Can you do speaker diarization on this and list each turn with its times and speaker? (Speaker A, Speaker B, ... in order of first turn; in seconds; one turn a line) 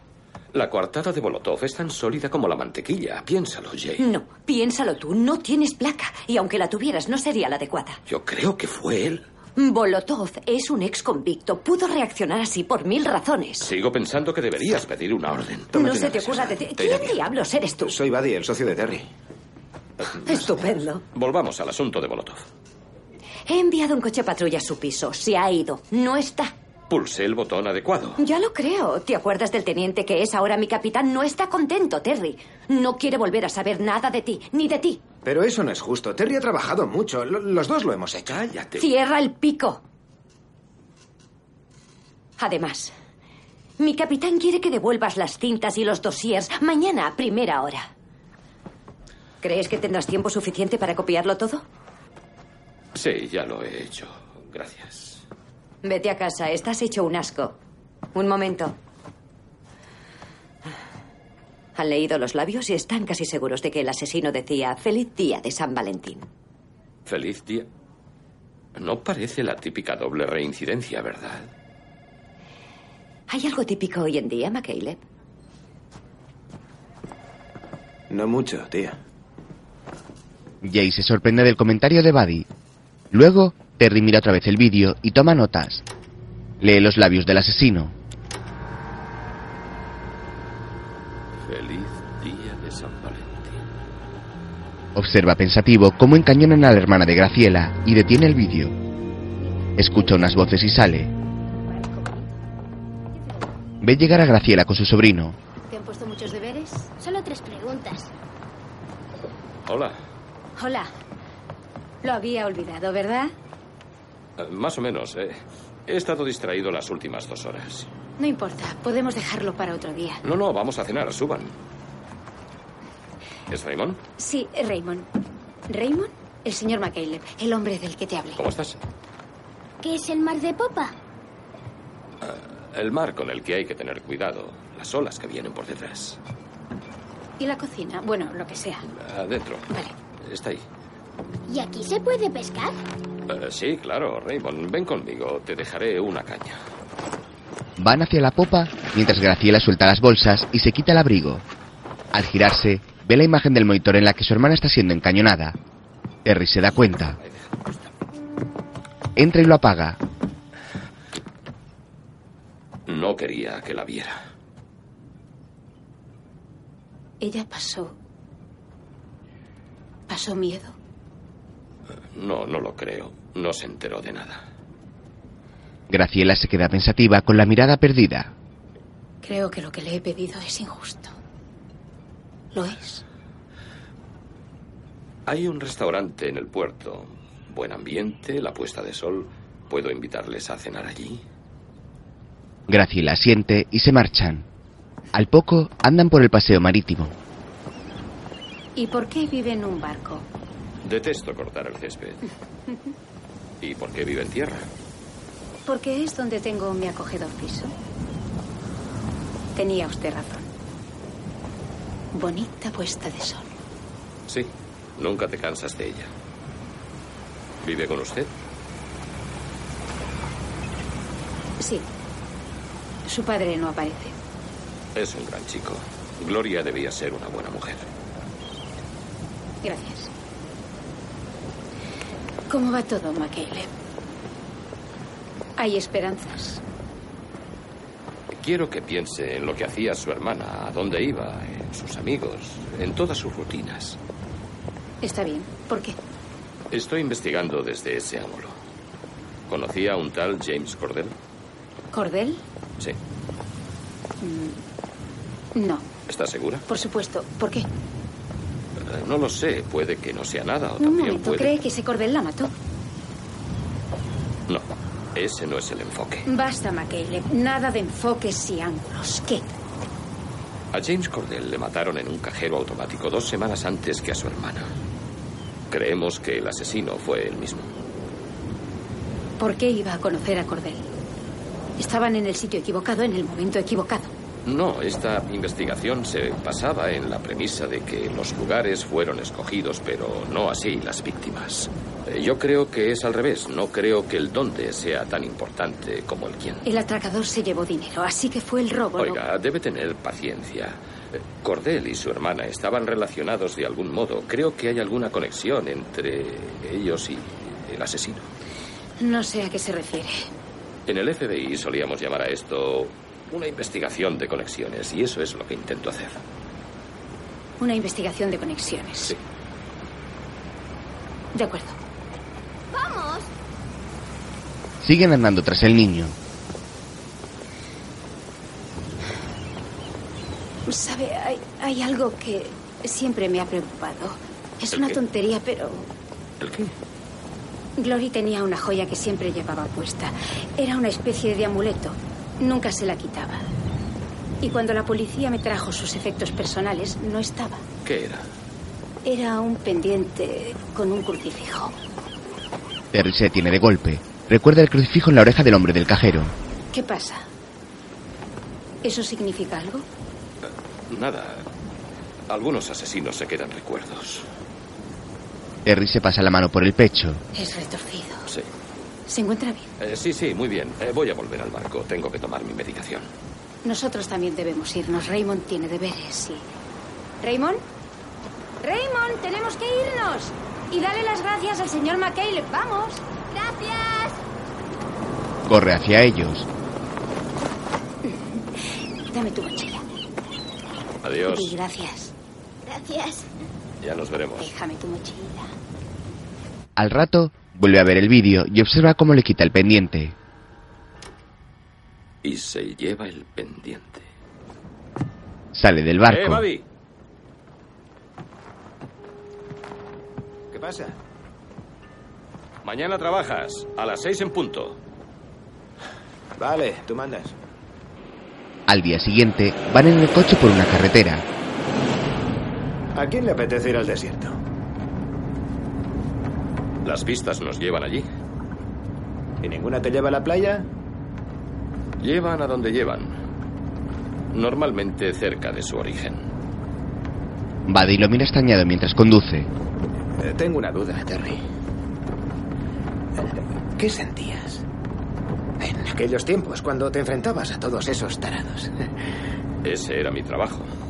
Speaker A: 0.5-4.0
Speaker B: 4.0-8.0
Speaker A: 8.1-9.2
Speaker B: 9.6-13.7
Speaker A: 13.6-15.7
Speaker C: 15.7-16.6
Speaker B: 15.7-17.9
Speaker A: 16.8-17.1
Speaker C: 17.8-19.1
Speaker C: 20.2-20.7
Speaker B: 20.2-21.0
Speaker A: 21.1-22.4
Speaker B: 23.5-26.5
Speaker A: 26.9-28.2
Speaker B: 28.2-35.0
Speaker C: 35.2-38.4
Speaker A: 38.3-38.9
Speaker B: 38.8-39.8
Speaker B: 42.4-42.9
Speaker B: 43.8-47.9
Speaker B: 49.4-51.6
Speaker A: 52.9-55.2
Speaker B: 55.8-57.5
Speaker B: 58.1-58.8
Speaker B: 61.8-66.3
Speaker A: 67.0-67.7
Speaker A: 68.8-71.5
Speaker B: 73.3-75.0
Speaker C: 78.1-79.0
Speaker D: 80.6-82.5
Speaker D: 83.1-85.8
Speaker D: 86.6-87.9
Speaker A: 91.4-93.6
Speaker D: 94.9-98.7
Speaker D: 99.8-101.1
Speaker D: 103.8-105.3
Speaker E: 105.7-106.9
Speaker F: 107.0-108.1
Speaker A: 109.7-110.0
Speaker E: 110.6-110.9
Speaker E: 112.0-113.3
Speaker A: 114.4-117.9
Speaker E: 118.2-120.2
Speaker A: 120.2-121.5
Speaker A: 123.5-124.0
Speaker E: 124.2-125.1
Speaker E: 125.7-128.4
Speaker A: 128.4-128.8
Speaker F: 129.8-130.9
Speaker A: 132.2-136.2
Speaker E: 137.4-138.8
Speaker A: 138.9-139.7
Speaker A: 140.2-140.6
Speaker F: 141.5-142.8
Speaker A: 143.3-146.6
Speaker D: 147.8-151.4
Speaker D: 152.1-155.6
Speaker D: 156.2-157.2
Speaker D: 159.2-160.0
Speaker A: 162.9-164.2
Speaker E: 167.2-167.9
Speaker E: 170.1-170.7
Speaker A: 172.1-174.4
Speaker D: 175.9-178.3
Speaker E: 179.2-181.1
Speaker E: 182.5-183.0
Speaker A: 185.2-191.2
Speaker D: 192.7-194.4
Speaker D: 195.1-197.1
Speaker E: 198.8-200.2
Speaker A: 200.8-202.2
Speaker A: 203.6-204.7
Speaker E: 205.7-207.7
Speaker E: 209.6-210.4
Speaker E: 212.1-213.5
Speaker A: 214.3-216.1
Speaker A: 217.6-218.3
Speaker E: 221.6-221.9
Speaker E: 223.0-224.1
Speaker A: 224.9-227.8
Speaker E: 229.6-230.1
Speaker E: 232.5-233.7
Speaker E: 235.6-236.6
Speaker A: 238.3-244.0
Speaker E: 245.0-246.0
Speaker A: 246.7-248.5
Speaker A: 249.5-251.1
Speaker E: 251.9-252.4
Speaker E: 254.2-254.6
Speaker E: 255.5-255.9
Speaker A: 256.1-256.6
Speaker E: 256.7-257.7
Speaker A: 258.8-261.5
Speaker E: 260.8-262.5
Speaker A: 264.5-266.3
Speaker E: 266.2-269.5
Speaker A: 270.7-274.7
Speaker A: 275.7-277.7
Speaker E: 279.4-280.9
Speaker E: 281.8-284.1
Speaker A: 284.4-296.6
Speaker E: 296.6-299.2
Speaker A: 299.0-308.3
Speaker E: 309.0-310.3
Speaker A: 310.9-316.2
Speaker E: 317.6-319.1
Speaker E: 321.3-321.8
Speaker F: 322.7-323.3
Speaker D: 324.8-326.1
Speaker E: 330.7-335.9
Speaker A: 336.4-336.7
Speaker E: 337.8-343.4
Speaker E: 344.4-347.6
Speaker A: 347.8-348.2
Speaker E: 349.0-351.7
Speaker D: 352.9-356.3
Speaker E: 356.7-357.2
Speaker E: 358.8-359.8
Speaker A: 360.9-361.4
Speaker A: 362.3-364.2
Speaker D: 365.6-367.2
Speaker E: 367.3-368.3
Speaker E: 369.1-369.7
Speaker A: 369.8-373.1
Speaker E: 373.6-376.5
Speaker E: 377.2-377.6
Speaker E: 378.6-383.1
Speaker F: 383.3-384.2
Speaker D: 385.4-386.5
Speaker E: 388.0-388.5
Speaker E: 389.1-389.8
Speaker A: 391.0-391.6
Speaker E: 391.3-392.1
Speaker F: 392.6-393.3
Speaker A: 393.8-394.5
Speaker E: 394.4-395.5
Speaker D: 396.8-400.1
Speaker A: 402.2-404.0
Speaker D: 405.5-406.4
Speaker A: 406.1-406.6
Speaker C: 410.5-410.9
Speaker A: 412.6-414.8
Speaker C: 416.4-417.3
Speaker D: 418.7-421.2
Speaker C: 422.9-424.4
Speaker A: 426.8-428.1
Speaker C: 429.4-430.7
Speaker A: 432.0-433.1
Speaker A: 434.3-436.2
Speaker D: 437.6-439.5
Speaker C: 440.2-441.4
Speaker C: 443.2-444.6
Speaker C: 445.6-448.7
Speaker A: 449.6-450.7